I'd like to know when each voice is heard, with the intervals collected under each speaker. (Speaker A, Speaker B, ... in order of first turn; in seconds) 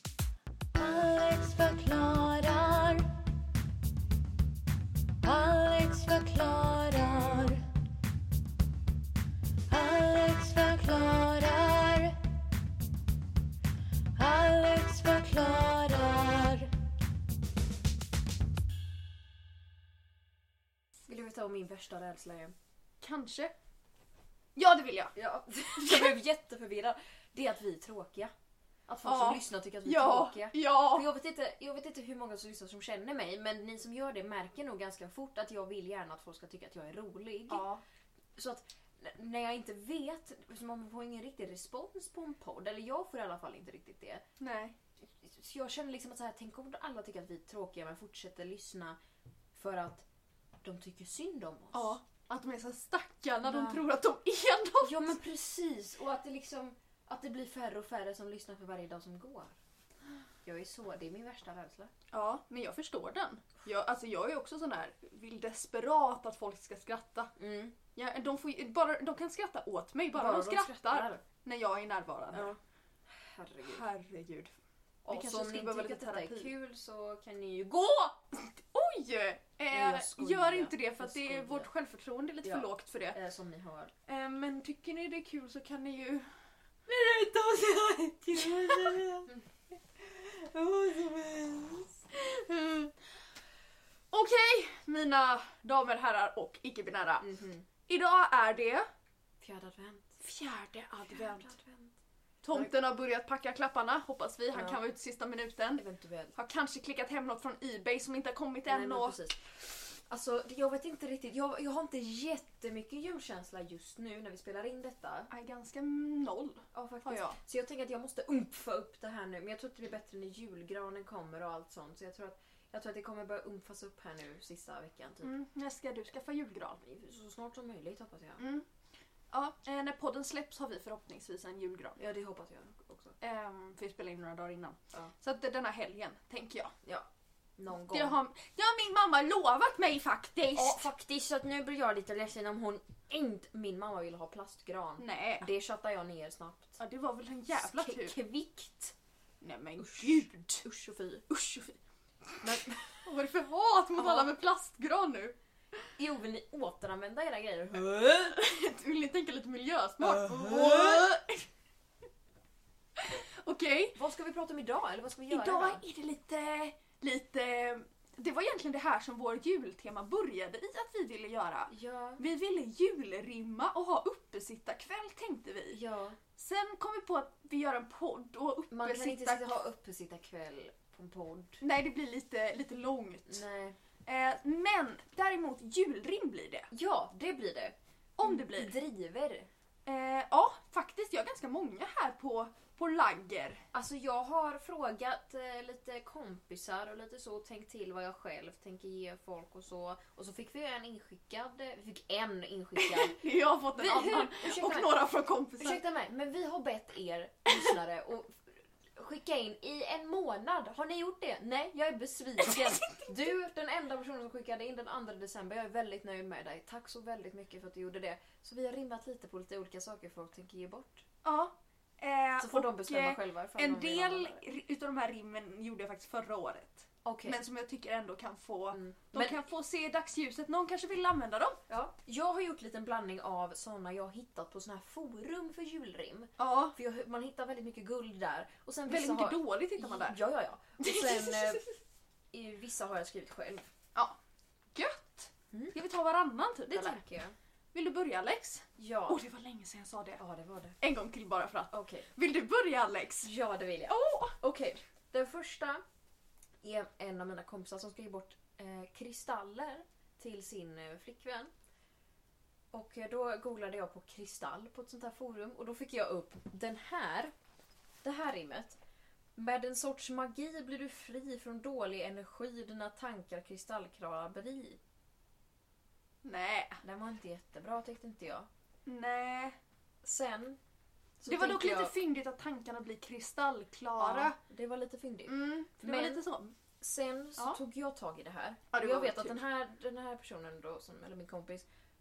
Speaker A: 0.8-3.0, 5.2-7.6, 9.7-12.1, 14.2-16.6, 86.9-89.3, 90.0-92.6
Speaker B: 21.1-22.5, 25.1-28.3, 28.9-37.6, 38.4-44.2, 45.2-49.0, 49.5-50.0, 50.6-52.0, 53.4-53.8, 54.8-59.5, 60.4-61.9, 67.4-67.7, 70.1-71.2, 72.3-73.8, 75.0-78.1, 79.7-81.7, 82.4-83.9, 97.2-97.7, 99.4-100.2, 101.1-101.9, 104.5-104.8, 105.8-106.3, 108.7-115.3, 116.7-125.3, 126.8-128.4, 132.0-133.2, 136.8-138.2, 140.5-146.8, 147.6-148.9, 149.8-151.7, 152.4-153.0, 154.0-154.3, 156.0-158.4, 160.0-161.1, 163.9-165.8, 171.7-172.2, 175.7-176.2, 178.7-181.6, 183.3-183.8, 186.7-189.5, 193.7-203.2, 203.7-204.9, 205.6-221.0, 222.4-224.4, 227.0-227.4, 228.7-229.4, 231.7-241.7, 242.3-243.7, 246.7-247.3, 248.8-249.2, 250.2-250.8, 251.7-252.1, 253.2-255.8, 256.6-261.5, 262.7-267.3, 268.0-268.8, 269.4-274.8, 276.8-278.5, 280.0-280.6, 281.2-281.9, 284.0-286.2, 286.8-291.6
Speaker C: 23.0-23.5, 24.5-25.1, 25.8-26.1, 29.0-31.1, 37.5-37.8, 44.4-44.8, 51.7-55.1, 62.1-67.3, 67.9-72.5, 73.6-74.5, 75.1-76.5, 78.3-83.2, 84.0-86.3, 94.1-97.3, 97.9-98.9, 100.2-101.5, 102.4-105.8, 106.3-109.2, 115.3-117.4, 125.2-126.8, 128.4-128.7, 129.3-132.0, 133.2-136.7, 137.7-140.9, 145.0-145.5, 146.8-148.2, 149.4-150.6, 151.3-151.6, 153.0-155.3, 158.3-161.5, 162.9-164.0, 165.3-175.8, 176.3-179.5, 181.6-183.4, 184.0-186.7, 188.2-188.7, 189.8-193.6, 202.8-205.8, 221.2-231.6, 236.4-236.8, 238.9-240.2, 240.8-241.6, 244.7-247.0, 247.7-250.2, 250.8-253.3, 253.9-254.3, 276.2-276.8, 278.8-279.6, 281.3-284.3, 285.2-286.5, 288.7-289.4